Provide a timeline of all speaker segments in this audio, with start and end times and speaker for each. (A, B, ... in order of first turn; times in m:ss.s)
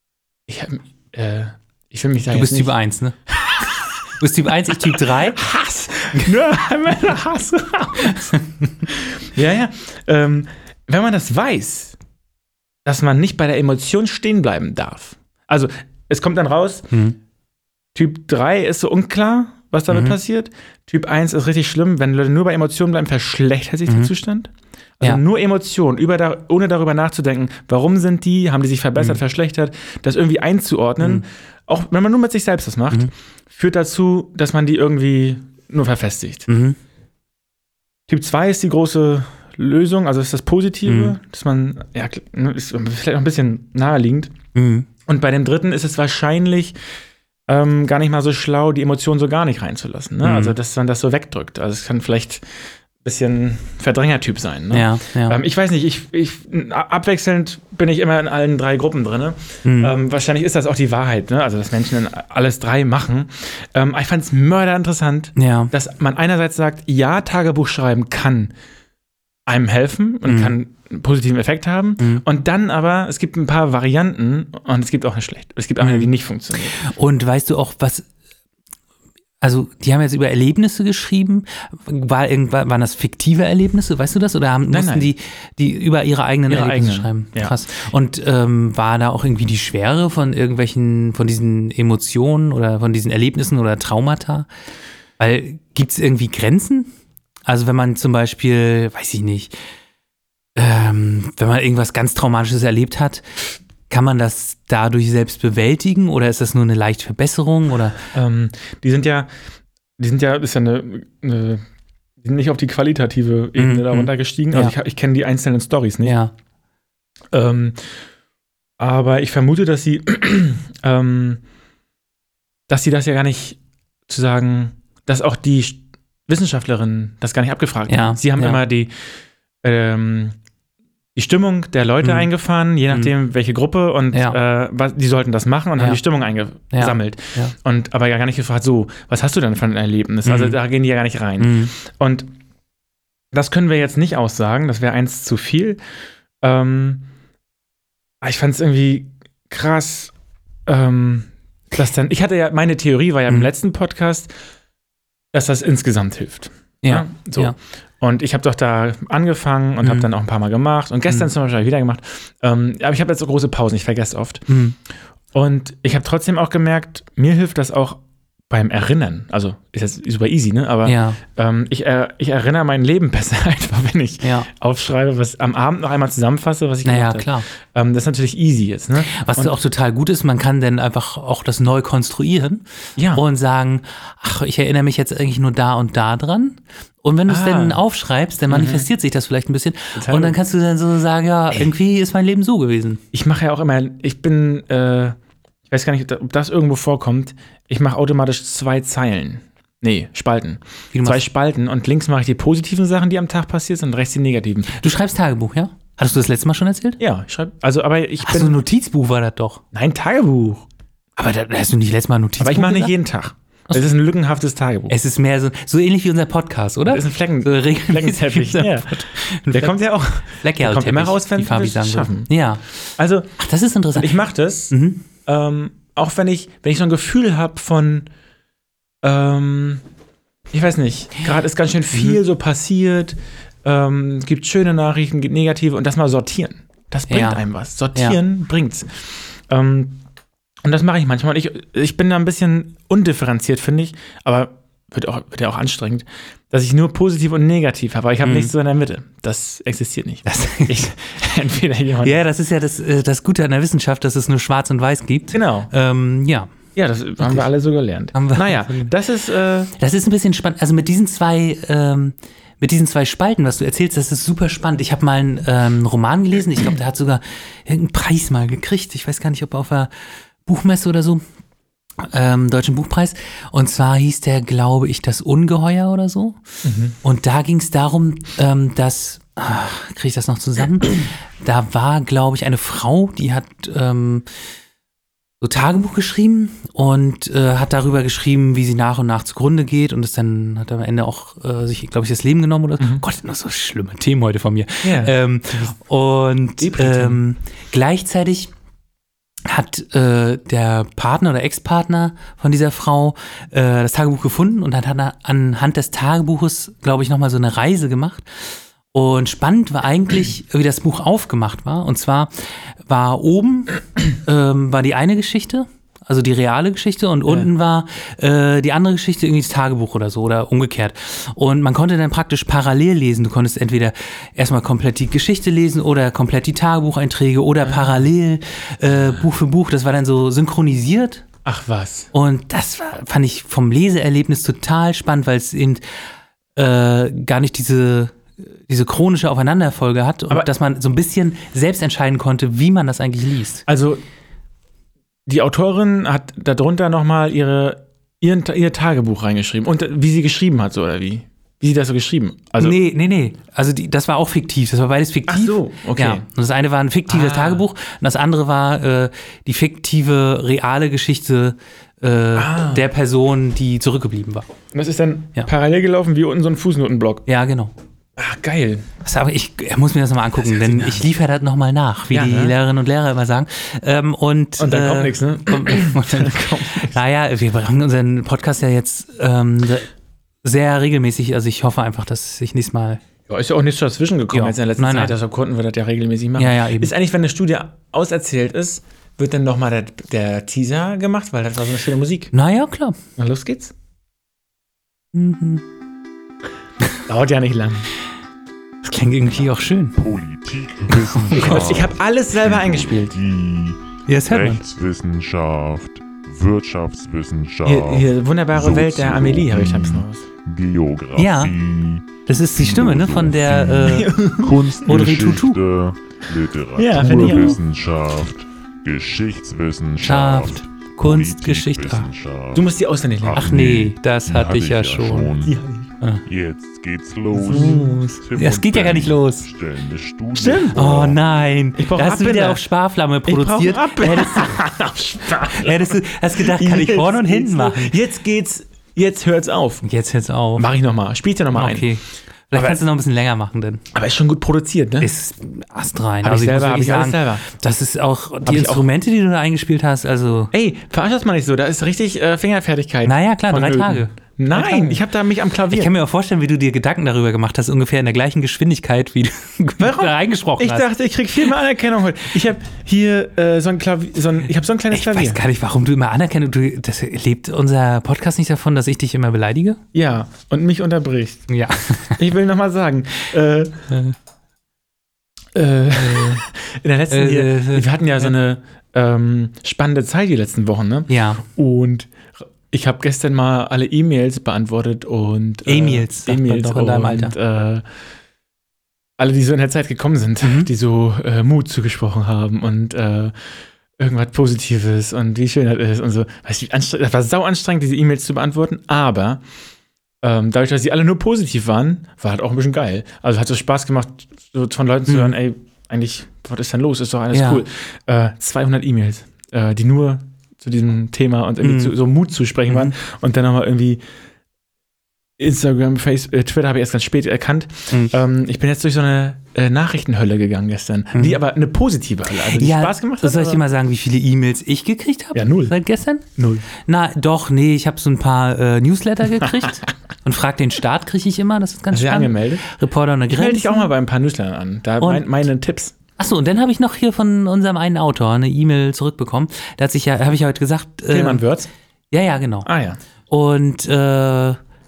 0:00.5-0:02.7 A
0:02.3-0:03.2 B
0:03.4-0:03.8 A
0:04.2-0:05.4 B
0:04.7-0:12.0 A
0:08.0-0:08.6 B
0:12.8-0:16.9 A
0:17.9-0:36.5 A
0:19.9-0:20.2 B
0:31.0-0:31.2 B
0:36.5-0:36.8 B
0:38.1-0:44.3 A
0:40.8-0:41.1 B
0:44.5-0:44.9 B
0:45.0-0:46.8 A
0:47.5-0:52.4 A
0:50.2-0:50.6 B
0:53.0-1:08.5 A
0:54.7-0:55.4 B
0:59.6-0:59.9 B
1:05.4-1:05.7 B
1:09.4-1:16.8 A
1:10.2-1:10.6 B
1:12.0-1:12.2 B
1:15.8-1:16.1 B
1:16.7-1:18.1 B
1:19.4-1:34.5 B
1:24.7-1:25.1 A
1:26.5-1:27.6 A
1:35.2-1:36.9 B
1:37.5-1:39.5 B
1:40.6-1:48.1 B
1:48.1-1:49.3 A
1:50.0-1:51.6 A
1:52.2-1:56.2 A
1:53.6-1:54.7 B
1:56.0-1:56.3 B
1:57.3-1:57.8 A
1:58.8-2:01.4 A
2:02.7-2:08.9 A
2:07.9-2:08.6 B
2:09.6-2:10.4 A
2:11.1-2:22.3 A
2:12.0-2:12.3 B
2:14.1-2:14.4 B
2:16.7-2:17.5 B
2:20.2-2:20.6 B
2:21.4-2:21.7 B
2:23.3-2:25.8 A
2:26.4-2:27.1 A
2:28.2-2:30.1 A
2:30.6-2:34.3 A
2:35.3-2:44.5 A
2:36.8-2:37.5 B
2:39.8-2:40.1 B
2:44.5-2:44.8 B
2:45.3-2:59.5 A
2:50.8-2:51.2 B
2:54.2-2:54.5 B
2:56.8-2:57.4 B
2:59.0-3:13.0 B
3:03.0-3:03.2 A
3:07.3-3:07.8 A
3:08.5-3:08.9 A
3:09.9-3:10.4 A
3:13.1-3:15.2 A
3:15.7-3:24.8 A
3:20.9-3:21.2 B
3:24.7-3:27.0 B
3:27.0-3:28.6 A
3:28.2-3:29.6 B
3:29.7-3:30.6 A
3:31.2-3:32.9 B
3:32.4-3:34.9 A
3:34.9-3:42.7 B
3:36.8-3:42.3 A
3:43.0-3:43.3 A
3:43.4-3:44.2 B
3:43.9-3:48.1 A
3:44.7-3:45.0 B
3:49.0-3:49.8 A
3:50.5-4:00.0 A
3:57.1-3:57.4 B
4:00.6-4:12.2 A
4:08.2-4:08.5 B
4:10.2-4:10.9 B
4:12.0-4:16.5 B
4:15.3-4:15.7 A
4:16.7-4:19.7 A
4:17.2-4:17.5 B
4:18.1-4:18.9 B
4:19.8-4:29.9 B
4:30.4-4:31.2 B
4:32.0-4:36.4 B
4:36.6-4:36.9 A
4:37.0-4:44.2 B
4:45.4-4:58.5 B
4:54.8-4:55.7 A
4:56.6-4:57.2 A
4:59.4-5:08.2 B
5:08.9-5:12.3 B
5:12.9-5:31.2 B
5:27.6-5:28.0 A
5:31.4-5:32.1 A
5:32.1-5:35.8 B
5:36.6-5:43.6 B
5:43.7-5:44.0 A
5:45.3-5:52.8 A
5:52.6-6:04.4 B
5:55.3-5:56.2 A
5:57.1-5:57.6 A
6:02.3-6:02.8 A
6:04.7-6:07.2 A
6:07.3-6:07.7 B
6:08.2-6:08.9 A
6:09.0-6:19.9 B
6:10.5-6:11.0 A
6:12.1-6:12.5 A
6:14.6-6:17.0 A
6:20.4-6:23.0 B
6:23.3-6:32.3 A
6:24.3-6:25.1 B
6:26.4-6:26.9 B
6:32.3-6:33.0 B
6:33.2-6:33.7 A
6:35.1-6:35.6 B
6:37.1-6:37.9 A
6:38.8-6:40.0 B
6:39.9-7:05.6 C
6:41.1-6:41.7 B
6:41.4-6:43.2 A
6:44.1-6:44.6 B
6:47.6-6:50.2 A
6:51.2-6:51.5 B
6:52.2-6:54.1 B
6:53.8-6:54.6 A
6:54.8-6:55.6 B
6:56.8-6:57.6 A
6:57.1-6:57.5 B
7:00.0-7:02.1 B
7:02.5-7:03.4 A
7:03.4-7:05.3 B
7:05.4-7:05.8 A
7:06.2-7:11.2 C
7:07.3-7:08.0 A
7:07.5-7:09.5 B
7:10.3-7:11.1 A
7:10.7-7:14.6 B
7:11.8-7:12.6 A
7:13.2-7:19.8 A
7:15.5-7:17.9 B
7:19.8-7:20.7 B
7:20.6-7:21.9 A
7:21.5-7:23.8 B
7:22.5-7:22.8 A
7:23.9-7:25.1 A
7:25.0-7:30.5 B
7:26.2-7:27.4 A
7:28.4-7:28.9 A
7:30.5-7:35.9 A
7:33.0-7:35.0 B
7:35.7-7:40.9 B
7:39.8-7:45.4 A
7:44.9-7:49.8 B
7:49.9-7:51.5 A
7:51.5-7:52.2 B
7:52.1-7:53.9 A
7:55.5-8:07.8 A
7:55.9-7:56.4 B
7:57.1-7:58.3 B
8:01.1-8:01.4 B
8:05.6-8:07.3 B
8:09.2-8:13.3 A
8:10.4-8:10.7 B
8:14.0-8:19.4 A
8:20.2-8:34.0 A
8:25.1-8:25.3 B
8:27.3-8:27.6 B
8:31.6-8:31.9 B
8:32.7-8:32.9 B
8:35.4-8:43.6 A
8:41.1-8:41.4 B
8:42.5-8:53.9 B
8:45.3-8:45.8 A
8:46.4-8:46.6 A
8:51.9-8:52.7 A
8:53.3-8:55.9 A
8:55.0-8:55.3 B
8:56.2-9:01.4 B
9:01.1-9:01.7 A
9:02.1-9:02.7 B
9:02.6-9:03.0 A
9:03.3-9:04.6 B